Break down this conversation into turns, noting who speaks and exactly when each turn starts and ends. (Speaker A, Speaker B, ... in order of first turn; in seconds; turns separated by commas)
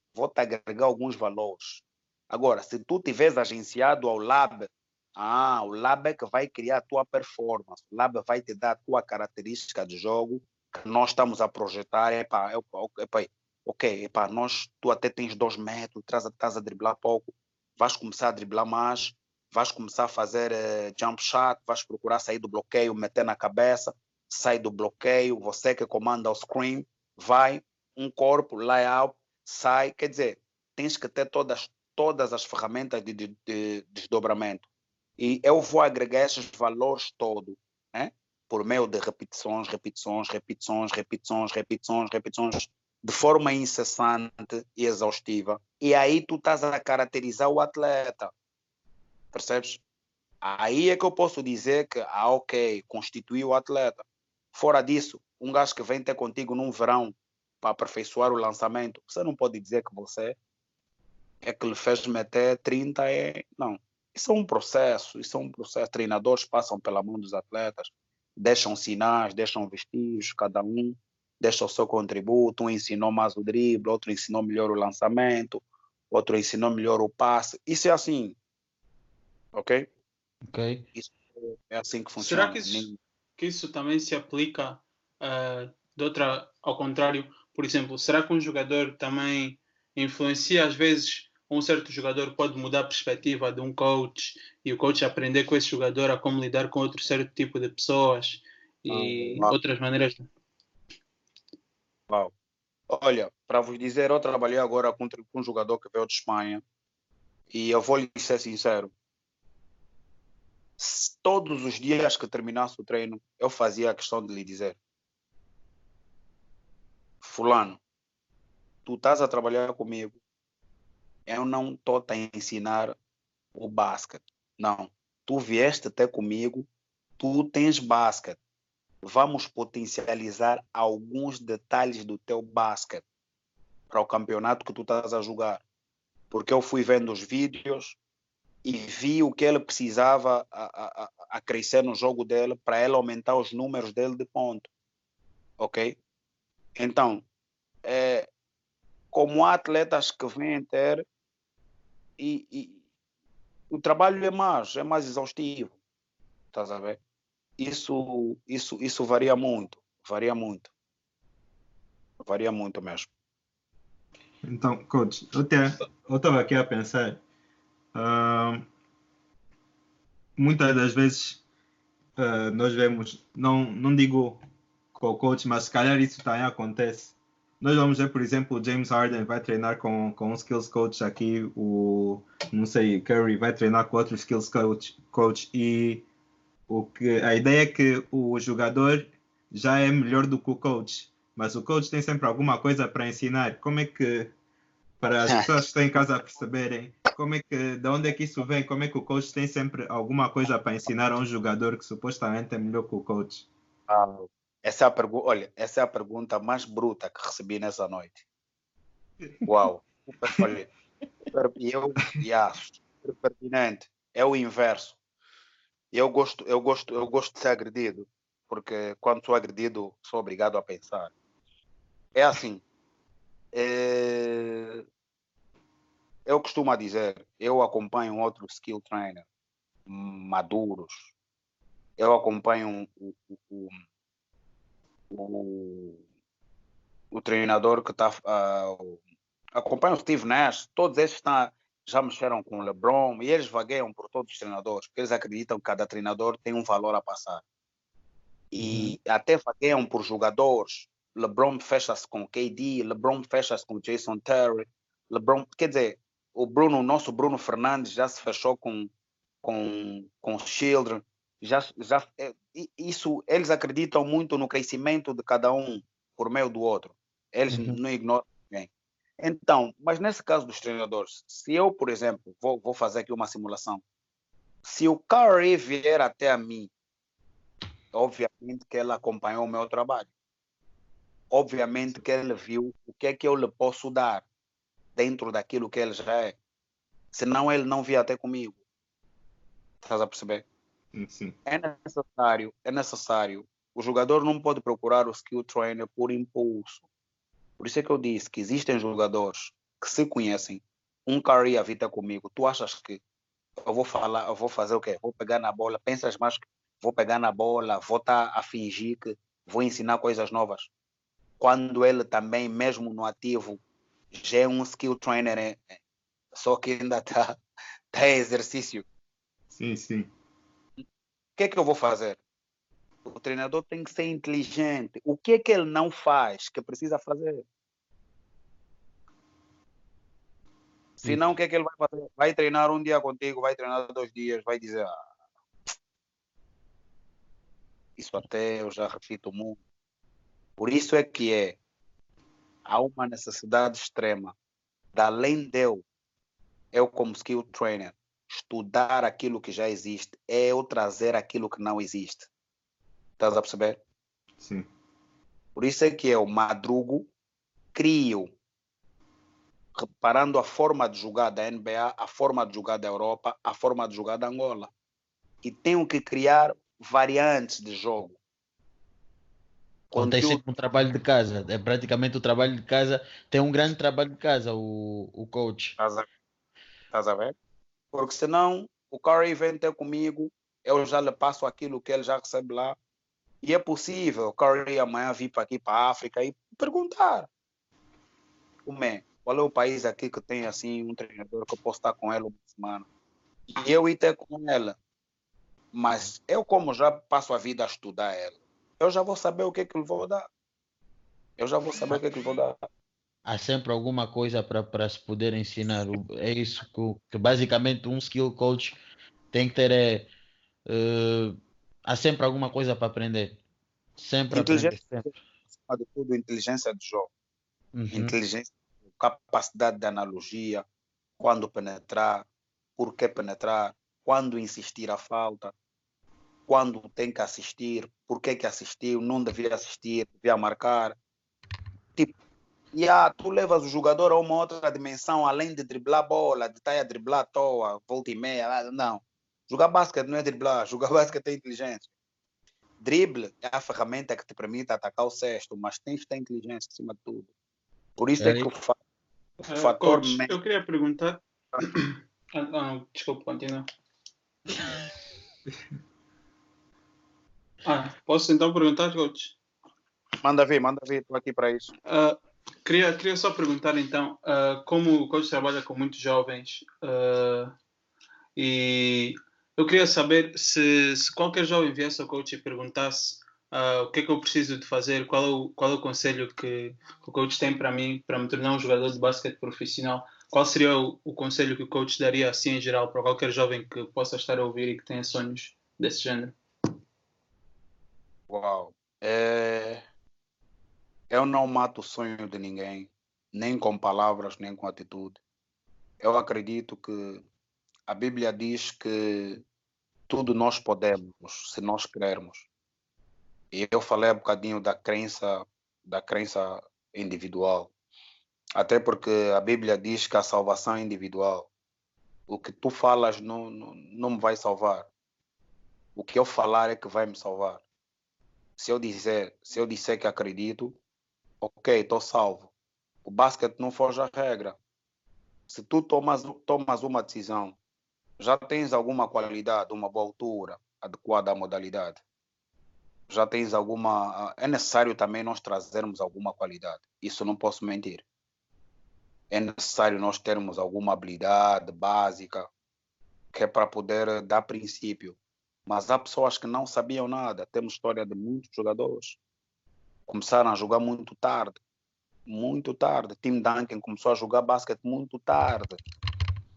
Speaker A: 0.1-34.7, Speaker A: 35.2-48.3, Speaker A: 49.3-49.8, Speaker A: 50.4-60.4, Speaker A: 61.4-78.4, Speaker A: 79.5-79.9, Speaker B: 80.4-80.9, Speaker A: 81.0-83.0, Speaker C: 82.2-100.3, Speaker A: 98.9-99.5, Speaker A: 102.9-106.6, Speaker A: 107.5-108.9, Speaker A: 110.8-114.8, Speaker A: 117.2-117.8, Speaker A: 118.9-120.2, Speaker A: 121.3-123.0, Speaker A: 123.5-126.7, Speaker A: 127.2-128.4, Speaker A: 129.0-133.0, Speaker A: 133.9-135.6, Speaker A: 136.3-138.0, Speaker A: 138.6-144.7, Speaker A: 145.6-146.0, Speaker A: 146.8-147.2, Speaker A: 147.8-148.3, Speaker A: 149.1-151.1, Speaker A: 152.2-152.8, Speaker A: 153.7-155.8, Speaker A: 156.5-157.0, Speaker A: 157.6-160.7, Speaker A: 162.2-163.1, Speaker D: 164.4-167.2, Speaker D: 167.9-168.7, Speaker D: 170.4-171.4, Speaker D: 172.2-174.4, Speaker D: 174.9-186.1, Speaker D: 186.7-194.3, Speaker D: 195.0-203.5, Speaker A: 195.3-195.6, Speaker A: 203.9-208.2, Speaker A: 209.4-210.7, Speaker A: 211.3-215.0, Speaker A: 215.9-221.1, Speaker A: 222.2-222.6, Speaker A: 223.5-224.8, Speaker A: 226.3-229.2, Speaker A: 229.9-231.1, Speaker A: 232.0-233.7, Speaker A: 235.1-236.0, Speaker A: 237.1-239.0, Speaker A: 239.6-247.4, Speaker A: 248.5-258.9, Speaker B: 248.6-249.0, Speaker A: 259.4-273.8, Speaker B: 267.5-267.8, Speaker A: 274.6-276.7, Speaker A: 277.9-280.1, Speaker A: 281.3-284.3, Speaker A: 285.0-286.4, Speaker A: 287.1-288.6, Speaker A: 289.8-290.4, Speaker D: 290.9-291.4, Speaker A: 291.5-296.9, Speaker A: 297.6-303.0, Speaker A: 303.7-310.7, Speaker A: 311.4-313.6, Speaker A: 314.1-315.8, Speaker A: 316.3-317.4, Speaker A: 317.9-318.9, Speaker D: 319.5-320.1, Speaker A: 321.4-322.2, Speaker A: 323.1-327.4, Speaker A: 331.0-334.9, Speaker A: 338.0-339.6, Speaker A: 340.6-341.6, Speaker A: 342.7-344.4, Speaker A: 344.9-345.8, Speaker A: 346.7-352.3, Speaker A: 353.2-353.8, Speaker D: 354.4-354.7, Speaker A: 355.6-357.1, Speaker A: 357.8-358.3, Speaker A: 359.8-364.7, Speaker A: 365.4-368.2, Speaker A: 369.9-370.4, Speaker B: 370.0-375.8, Speaker A: 375.8-376.1, Speaker A: 376.9-377.3, Speaker A: 377.9-382.8, Speaker A: 383.4-387.3, Speaker A: 388.6-392.9, Speaker A: 393.6-394.8, Speaker A: 395.7-400.3, Speaker A: 401.4-402.6, Speaker B: 403.3-408.8, Speaker B: 409.3-410.1, Speaker B: 410.7-413.4, Speaker B: 414.0-415.1, Speaker A: 414.3-417.1, Speaker B: 417.8-418.1, Speaker A: 417.9-420.6, Speaker A: 421.2-425.5, Speaker A: 426.5-431.0, Speaker A: 432.7-441.9, Speaker A: 442.8-447.3, Speaker A: 448.0-448.8, Speaker B: 448.2-448.5, Speaker A: 449.5-450.3, Speaker C: 449.5-453.7, Speaker C: 457.6-459.4, Speaker A: 460.2-461.7, Speaker C: 461.9-467.5, Speaker C: 468.4-486.4, Speaker A: 488.3-489.8, Speaker A: 491.1-495.2, Speaker A: 496.0-497.2, Speaker A: 497.9-499.4, Speaker A: 500.1-502.5, Speaker A: 503.5-507.7, Speaker A: 508.6-511.5, Speaker A: 512.3-514.9, Speaker A: 516.0-517.6, Speaker A: 518.6-520.8, Speaker A: 521.4-522.5, Speaker A: 523.0-524.6, Speaker A: 525.5-527.6, Speaker A: 528.2-532.0, Speaker A: 533.1-538.0, Speaker A: 539.3-542.5, Speaker A: 543.3-549.2, Speaker A: 550.1-551.6, Speaker A: 552.3-555.8